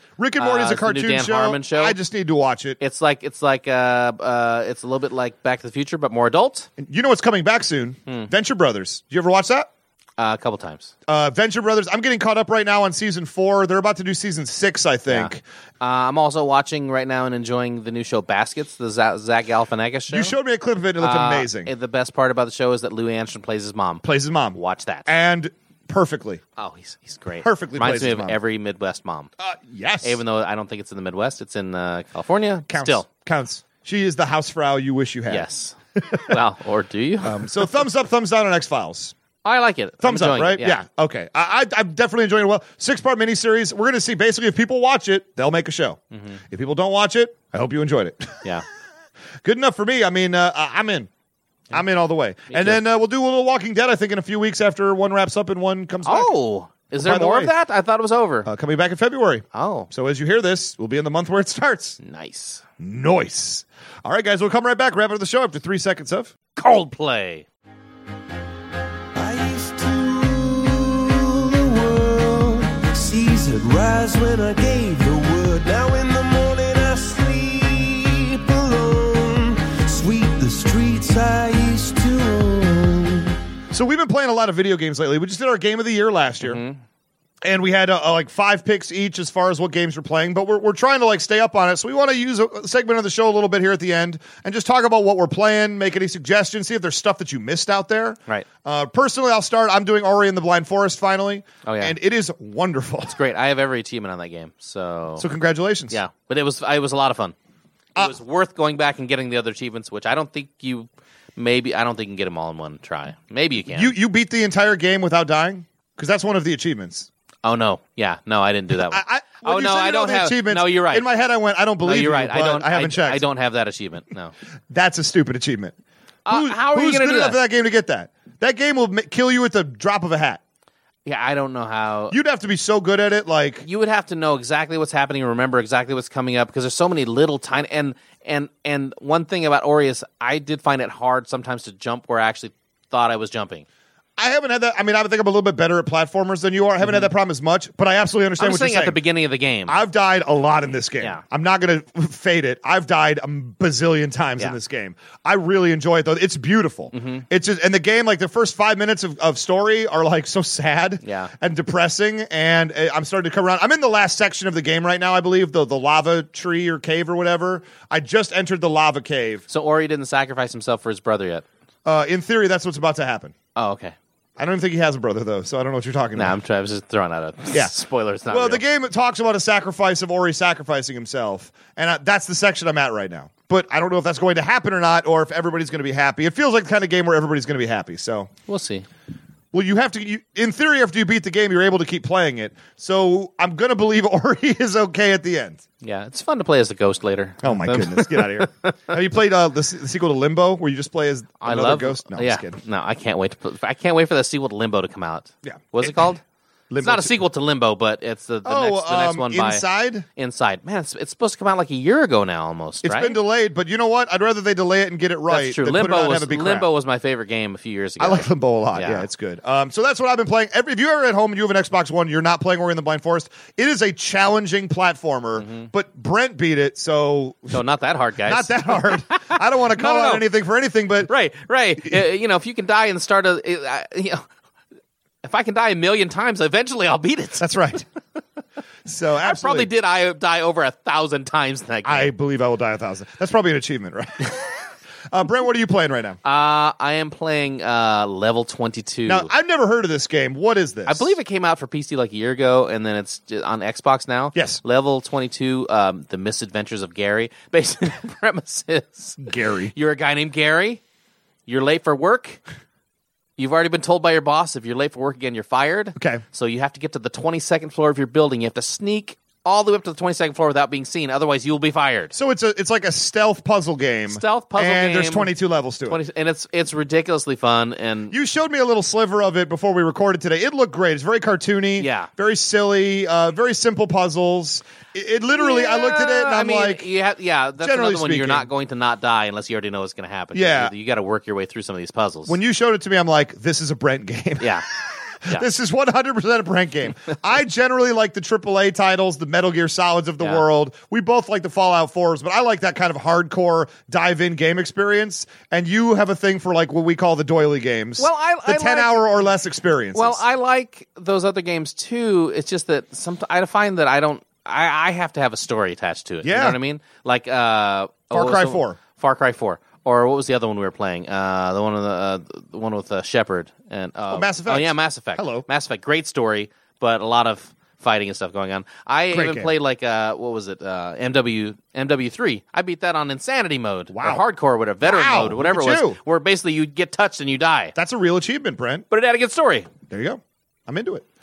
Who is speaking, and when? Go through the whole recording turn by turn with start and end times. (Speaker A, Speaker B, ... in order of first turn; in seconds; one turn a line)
Speaker A: 0.2-2.8
Speaker B: 0.4-2.0
Speaker B: 2.8-6.7
Speaker A: 6.8-9.7
Speaker B: 10.2-10.9
Speaker A: 11.1-15.4
Speaker B: 15.1-20.3
Speaker A: 20.1-21.7
Speaker B: 21.0-25.1
Speaker A: 24.0-26.4
Speaker B: 26.6-29.3
Speaker A: 27.4-28.4
Speaker A: 29.4-30.2
Speaker B: 30.0-33.0
Speaker A: 32.7-36.4
Speaker B: 35.3-37.5
Speaker A: 37.2-39.1
Speaker B: 39.4-40.8
Speaker A: 40.0-48.5
Speaker B: 46.1-46.4
Speaker A: 49.4-51.1
Speaker A: 51.7-56.3
Speaker B: 52.5-52.8
Speaker B: 56.0-58.5
Speaker A: 57.0-57.5
Speaker A: 58.5-62.0
Speaker B: 59.5-59.9
Speaker B: 62.0-62.6
Speaker A: 62.8-66.3
Speaker B: 66.5-67.5
Speaker C: 69.2-83.3
Speaker A: 83.7-86.6
Speaker B: 86.4-86.8
Speaker A: 87.4-103.2
Speaker B: 101.6-102.0
Speaker B: 103.1-105.3
Speaker A: 105.2-106.0
Speaker B: 105.9-107.3
Speaker B: 108.0-113.9
Speaker A: 113.7-117.1
Speaker B: 117.4-121.0
Speaker A: 118.7-123.2
Speaker B: 121.8-124.3
Speaker A: 124.7-125.7
Speaker B: 126.2-127.4
Speaker A: 126.3-130.4
Speaker B: 131.0-132.2
Speaker A: 132.1-133.7
Speaker B: 133.6-143.6
Speaker A: 144.2-149.0
Speaker B: 146.8-147.1
Speaker B: 148.4-149.8
Speaker A: 149.7-169.4
Speaker B: 156.9-157.2
Speaker B: 161.0-161.3
Speaker B: 169.5-171.4
Speaker A: 171.8-173.3
Speaker B: 173.6-173.9
Speaker A: 174.4-176.4
Speaker B: 176.1-178.6
Speaker A: 178.3-188.3
Speaker B: 188.5-188.8
Speaker A: 189.5-195.6
Speaker B: 195.8-198.8
Speaker A: 197.4-202.6
Speaker B: 201.4-206.2
Speaker A: 205.4-206.1
Speaker A: 206.7-207.1
Speaker B: 206.8-209.6
Speaker A: 208.4-210.1
Speaker B: 210.2-213.2
Speaker A: 212.8-216.7
Speaker B: 215.3-219.1
Speaker A: 218.0-227.6
Speaker B: 225.4-225.7
Speaker B: 227.5-230.2
Speaker A: 228.2-231.1
Speaker B: 231.0-234.2
Speaker B: 235.2-237.4
Speaker A: 237.4-237.8
Speaker A: 238.8-239.7
Speaker B: 239.2-242.1
Speaker A: 241.8-244.5
Speaker A: 245.1-246.2
Speaker B: 246.2-249.3
Speaker A: 249.1-251.1
Speaker B: 250.8-260.8
Speaker A: 254.3-254.6
Speaker A: 259.2-259.7
Speaker B: 261.4-262.4
Speaker B: 263.4-272.1
Speaker A: 266.0-266.2
Speaker A: 272.1-276.0
Speaker B: 274.1-275.3
Speaker B: 275.9-278.1
Speaker A: 278.1-286.9
Speaker B: 281.8-282.1
Speaker B: 285.3-292.4
Speaker A: 287.6-288.5
Speaker A: 290.3-290.7
Speaker A: 292.3-310.2
Speaker B: 294.4-294.6
Speaker B: 300.2-300.4
Speaker B: 308.0-309.1
Speaker B: 309.9-337.7
Speaker A: 316.2-316.6
Speaker A: 318.1-318.8
Speaker A: 324.1-325.4
Speaker A: 329.1-329.5
Speaker A: 333.9-334.2
Speaker A: 334.8-336.0
Speaker A: 337.8-338.8
Speaker B: 338.9-339.7
Speaker A: 339.9-341.0